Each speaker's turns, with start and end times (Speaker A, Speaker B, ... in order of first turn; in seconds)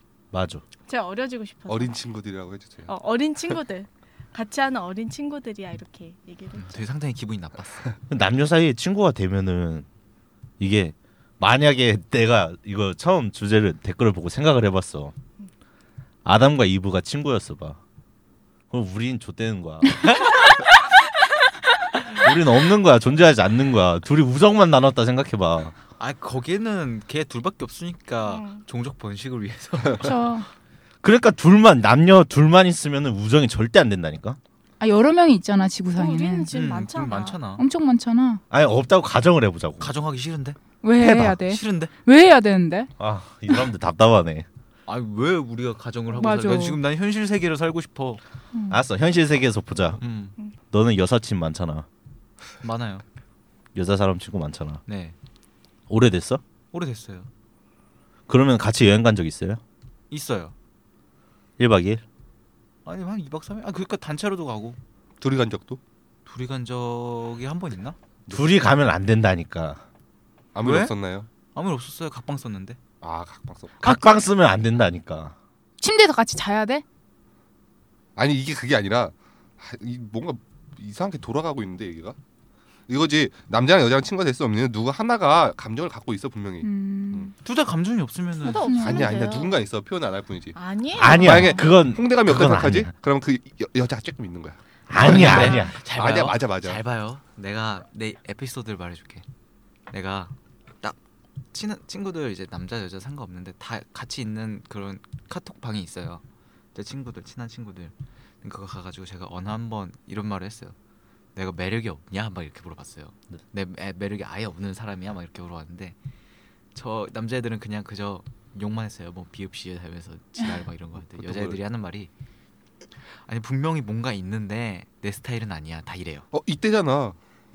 Speaker A: 0.3-0.6, 8.1-9.9, 10.6-15.1, 16.2-17.8, 18.7-20.1, 22.2-25.7, 31.0-34.4, 38.5-39.9, 41.0-41.4, 43.0-44.5, 48.7-50.0, 50.7-51.9, 53.7-54.8, 55.9-56.4, 58.3-59.6, 61.6-62.0, 68.3-69.8, 73.8-75.3, 91.0-92.9, 94.9-95.8
Speaker B: 0.9-2.0, 2.9-6.9, 28.2-28.6, 35.9-37.4, 88.4-89.5, 90.5-91.6
Speaker C: 1.7-2.9, 65.2-65.8, 68.3-68.5, 70.5-71.3, 73.0-73.8, 78.2-82.2, 82.9-87.3, 88.7-96.8, 121.2-121.6, 126.3-127.2
Speaker D: 6.6-7.9, 26.0-30.2, 36.5-37.6, 39.8-40.6, 41.3-41.9, 44.9-48.2, 50.0-50.3, 52.6-53.0, 54.9-55.1, 56.7-57.3, 60.1-60.5, 62.9-64.8, 66.2-68.0, 70.6-70.9, 71.5-72.8, 87.4-88.7, 94.9-99.2, 99.9-101.0, 101.5-106.2, 106.7-110.7, 111.3-115.9, 116.7-122.1, 123.2-126.3
Speaker E: 30.0-30.5, 34.8-36.5, 37.5-38.4, 40.8-42.9, 46.1-46.8, 48.5-48.8, 73.8-74.2, 75.8-76.8, 86.6-87.3, 88.4-89.1